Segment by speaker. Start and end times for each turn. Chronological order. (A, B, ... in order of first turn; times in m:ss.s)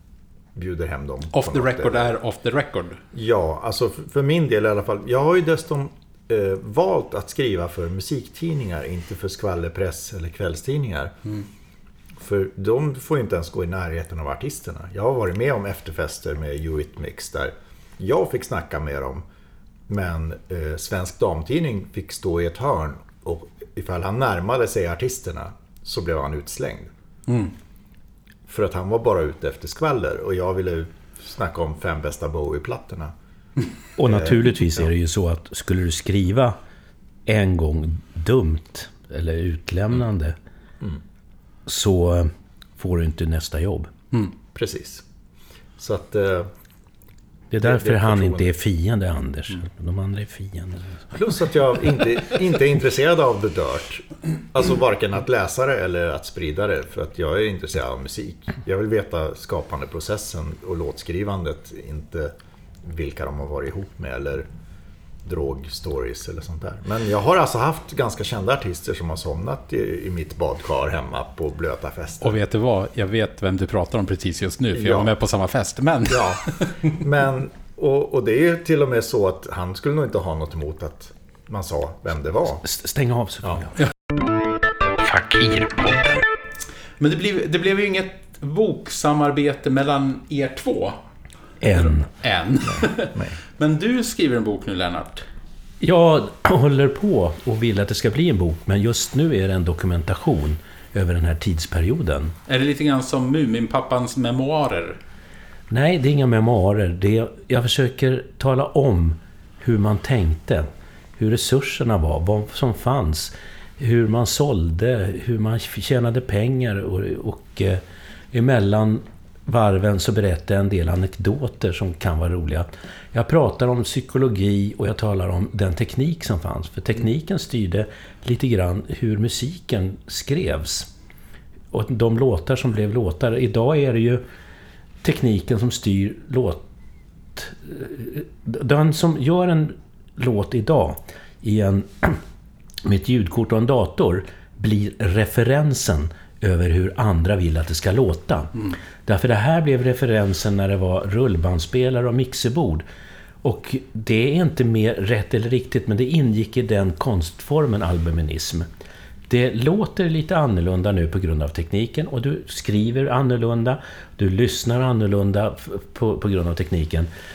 0:00.5-0:02.1 A
0:01.3-0:03.0 B
0:03.1-0:11.2 A
0:12.2-0:19.2 A
0:19.9-0:26.9 A
0:27.3-0:27.5 B
0:28.5-0:33.1 A
0:34.0-0:36.6 C
0:34.0-0:34.6 A
0:37.3-0:40.4 C
0:41.7-0:43.9 C
0:44.5-0:45.0 A
0:45.8-0:46.5 A
0:47.5-0:51.1 C
0:47.6-0:48.5 A
0:51.1-1:04.4 A
1:05.2-1:12.4 A
1:12.2-1:16.9 B
1:14.7-1:15.1 A
1:16.1-1:22.6 A
1:22.6-1:23.8 C
1:27.0-1:31.0 B
1:31.6-1:32.1 C
1:31.7-1:35.2 B
1:35.8-1:42.4 C
1:42.5-1:45.0 B
1:45.7-2:10.9 C
2:11.7-2:14.2 C
2:15.0-2:16.6 C
2:17.3-2:22.2 C
2:22.8-2:32.8 C
2:33.4-2:38.6 C
2:39.3-2:47.1 C